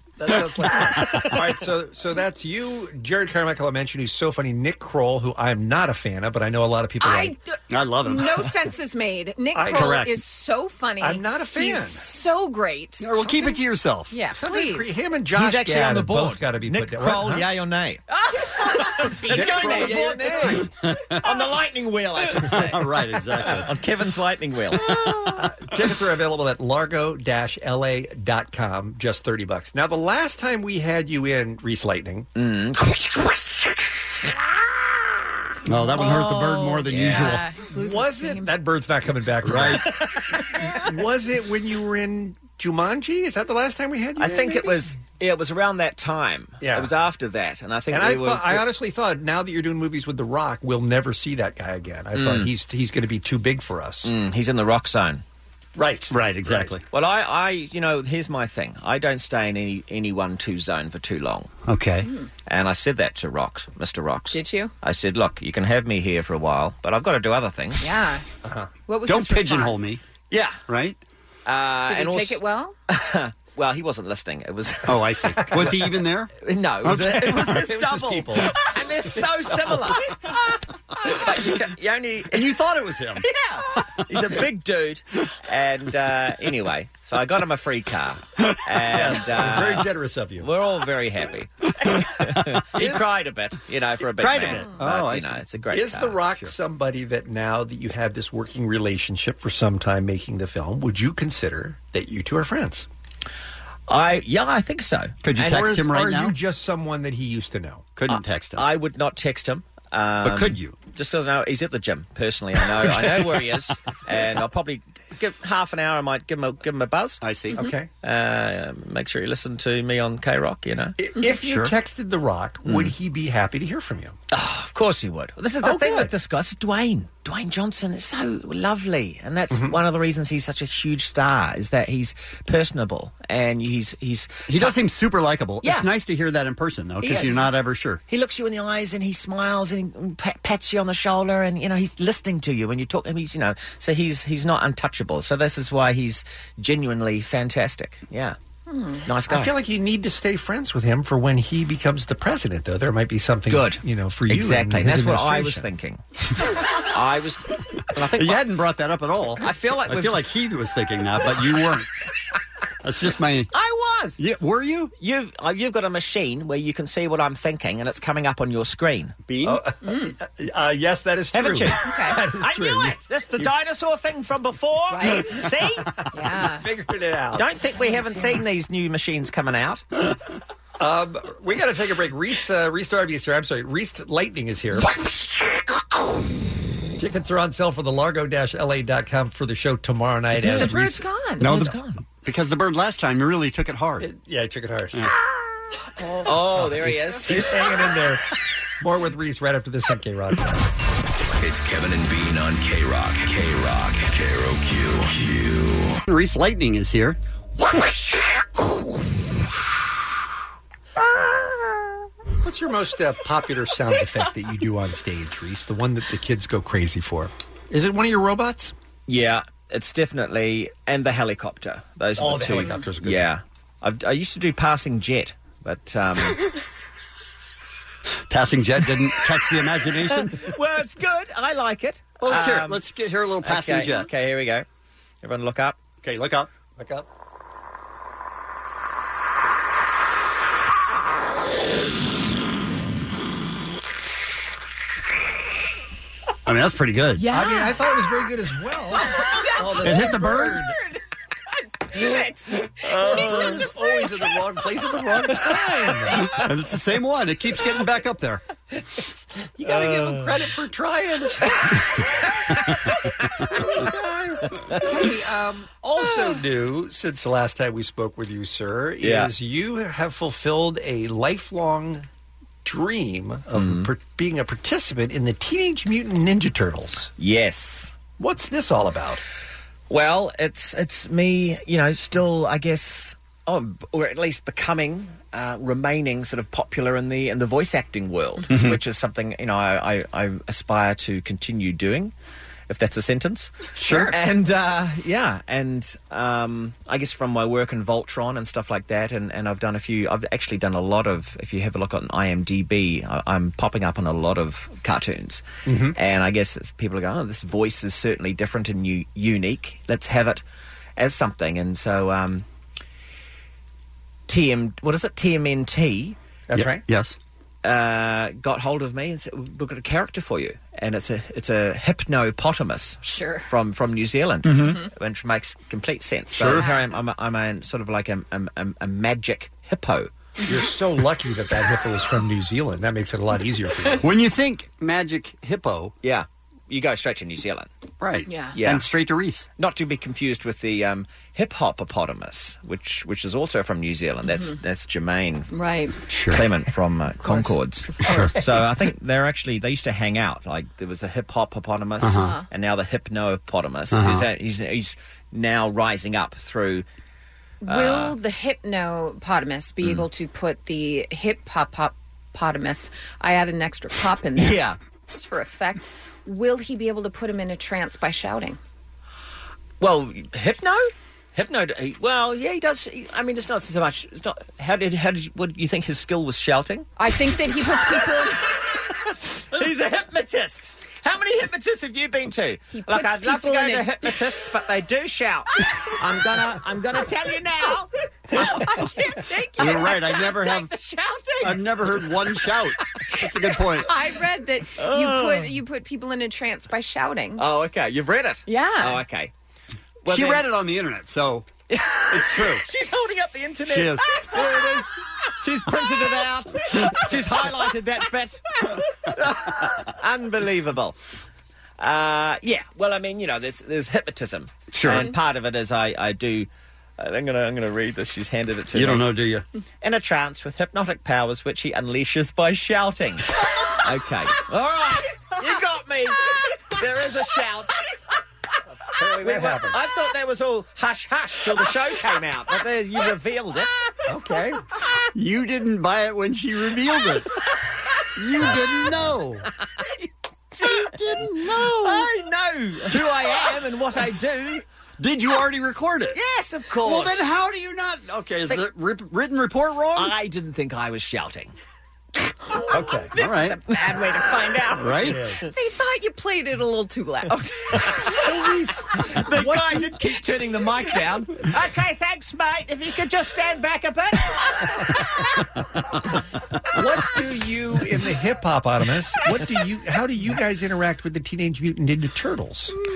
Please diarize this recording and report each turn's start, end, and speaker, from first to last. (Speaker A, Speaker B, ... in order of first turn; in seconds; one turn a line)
Speaker A: 0.2-1.5
Speaker B: 0.2-7.3
Speaker C: 7.0-13.0
Speaker A: 7.7-8.5
Speaker B: 9.5-10.1
Speaker A: 9.7-10.1
Speaker B: 11.0-12.1
Speaker A: 13.0-14.1
Speaker B: 13.2-13.6
Speaker C: 14.1-14.9
Speaker B: 14.3-17.5
Speaker D: 15.3-18.0
Speaker C: 18.1-19.3
Speaker D: 18.7-24.8
Speaker A: 19.2-21.2
Speaker B: 19.3-20.7
Speaker A: 22.4-23.8
Speaker C: 24.8-25.4
Speaker B: 25.2-32.3
Speaker D: 32.4-33.7
Speaker A: 35.6-37.4
Speaker C: 35.9-38.5
Speaker D: 36.9-37.4
Speaker B: 37.7-39.9
Speaker A: 39.4-39.9
Speaker B: 40.6-44.8
Speaker D: 44.2-48.6
Speaker B: 46.6-46.9
Speaker B: 47.9-54.1
Speaker D: 52.1-52.5
Speaker D: 54.0-55.2
Speaker B: 55.8-56.7
Speaker A: 56.1-56.8
Speaker D: 56.9-61.5
Speaker A: 61.7-62.1
Speaker D: 62.5-67.8
Speaker C: 64.3-64.7
Speaker C: 67.8-68.2
Speaker C: 68.9-70.0
Speaker A: 69.1-70.0
Speaker D: 70.3-70.6
Speaker A: 70.7-71.0
Speaker D: 71.5-75.0
Speaker C: 71.9-72.7
Speaker A: 74.9-77.7
Speaker B: 75.3-75.8
Speaker D: 76.4-80.3
Speaker B: 76.9-79.9
Speaker D: 81.0-82.5
Speaker A: 82.3-83.2
Speaker D: 83.2-89.9
Speaker B: 88.9-90.5
Speaker A: 88.9-89.8
Speaker D: 90.4-96.3
Speaker B: 92.7-93.2
Speaker A: 94.2-95.4
Speaker B: 95.7-102.9
Speaker D: 103.9-105.7
Speaker A: 105.2-106.3
Speaker B: 105.4-107.9
Speaker A: 108.0-108.7
Speaker D: 108.1-117.2
Speaker A: 110.2-110.8
Speaker A: 112.8-113.3
Speaker A: 117.2-117.6
Speaker B: 117.5-117.9
Speaker D: 118.0-121.0
Speaker B: 121.0-124.2
Speaker A: 121.3-121.7
Speaker D: 122.6-122.9
Speaker D: 124.3-134.8
Speaker B: 125.6-126.1
Speaker B: 129.5-129.8
Speaker A: 134.5-138.0
Speaker D: 135.6-135.9
Speaker D: 137.0-137.5
Speaker D: 138.1-148.3
Speaker C: 148.7-149.0
Speaker D: 149.0-149.5
Speaker B: 149.3-155.7
Speaker D: 153.5-156.0
Speaker D: 156.8-158.5
Speaker A: 158.1-161.9
Speaker D: 159.4-160.2
Speaker A: 162.8-163.5
Speaker D: 163.5-164.2
Speaker A: 164.2-164.9
Speaker D: 165.0-169.2
Speaker A: 169.2-169.6
Speaker B: 169.4-173.5
Speaker C: 169.8-170.1
Speaker D: 171.3-175.9
Speaker C: 171.8-172.2
Speaker C: 174.9-175.3
Speaker C: 176.1-176.7
Speaker B: 176.4-177.5
Speaker D: 177.3-179.8
Speaker C: 177.8-178.3
Speaker B: 180.8-185.0
Speaker B: 187.0-191.0
Speaker D: 190.4-190.7
Speaker C: 190.4-191.5
Speaker D: 191.4-192.0
Speaker A: 191.4-194.1
Speaker B: 194.0-195.1
Speaker D: 196.2-198.0
Speaker B: 196.6-198.2
Speaker A: 196.6-197.2
Speaker B: 198.8-200.7
Speaker E: 201.4-206.0
Speaker A: 206.1-207.2
Speaker B: 212.4-218.7
Speaker D: 219.1-226.4
Speaker B: 222.2-223.3
Speaker A: 228.3-230.5
Speaker D: 230.4-232.8
Speaker A: 232.2-234.1
Speaker D: 233.4-234.6
Speaker D: 235.2-235.8
Speaker A: 236.0-236.5
Speaker B: 236.8-237.1
Speaker A: 246.4-247.3
Speaker C: 247.2-247.7
Speaker B: 247.3-250.7
Speaker C: 249.1-251.0
Speaker A: 249.8-250.6
Speaker C: 251.8-254.1
Speaker B: 252.8-256.3
Speaker A: 256.2-258.4
Speaker B: 259.6-261.9
Speaker D: 259.7-260.3
Speaker B: 263.6-272.1
Speaker D: 269.0-269.3
Speaker B: 272.6-277.1
Speaker D: 273.5-273.9
Speaker D: 277.2-278.0
Speaker B: 278.2-279.2
Speaker D: 279.9-292.1
Speaker A: 288.5-288.8
Speaker D: 292.7-310.4
Speaker A: 293.8-294.1
Speaker C: 293.9-294.1
Speaker B: 305.6-306.0
Speaker D: 311.0-312.4
Speaker D: 314.3-316.2
Speaker B: 316.5-316.8
Speaker A: 316.5-317.2
Speaker D: 317.6-330.1
Speaker C: 323.0-323.5
Speaker A: 324.4-324.8
Speaker C: 324.6-324.9
Speaker A: 326.3-326.7
Speaker C: 326.5-326.8
Speaker B: 330.4-334.1
Speaker A: 334.0-335.9
Speaker D: 336.0-337.7
Speaker A: 338.0-339.5
Speaker C: 338.2-338.6
Speaker D: 338.5-338.9
Speaker D: 339.6-345.5
Speaker C: 344.2-344.5
Speaker C: 345.5-346.0
Speaker A: 346.1-346.4
Speaker D: 346.3-356.9
Speaker C: 347.2-348.4
Speaker A: 348.0-348.4
Speaker A: 352.0-352.4
Speaker C: 352.1-352.4
Speaker A: 353.9-354.2
Speaker C: 357.6-368.6
Speaker D: 357.6-358.1
Speaker D: 364.4-364.8
Speaker D: 369.8-376.9
Speaker C: 377.0-378.5
Speaker D: 379.5-389.2
Speaker C: 382.7-384.2
Speaker C: 388.3-391.6
Speaker A: 389.6-390.7
Speaker A: 391.4-393.9
Speaker C: 393.8-397.4
Speaker D: 394.8-395.6
Speaker D: 397.4-399.3
Speaker C: 398.5-399.0
Speaker D: 400.0-400.5
Speaker A: 400.1-401.5
Speaker D: 401.7-411.0
Speaker A: 402.1-402.6
Speaker A: 403.6-404.1
Speaker D: 411.8-419.1
Speaker A: 414.7-415.1
Speaker A: 418.7-419.4
Speaker D: 419.8-427.7
Speaker B: 428.9-429.8
Speaker D: 429.0-433.8
Speaker B: 434.1-434.6
Speaker A: 435.1-437.4
Speaker A: 438.1-439.5
Speaker A: 440.6-442.1
Speaker D: 440.6-440.9
Speaker D: 441.5-444.6
Speaker A: 445.0-446.2
Speaker D: 446.1-447.3
Speaker A: 446.8-450.1
Speaker D: 449.9-451.5
Speaker B: 452.7-453.1
Speaker D: 452.7-455.5
Speaker A: 453.1-453.6
Speaker A: 454.7-455.2
Speaker B: 455.0-455.4
Speaker C: 455.5-458.0
Speaker D: 457.9-458.3
Speaker B: 458.1-459.9
Speaker D: 459.0-465.0
Speaker B: 466.7-472.7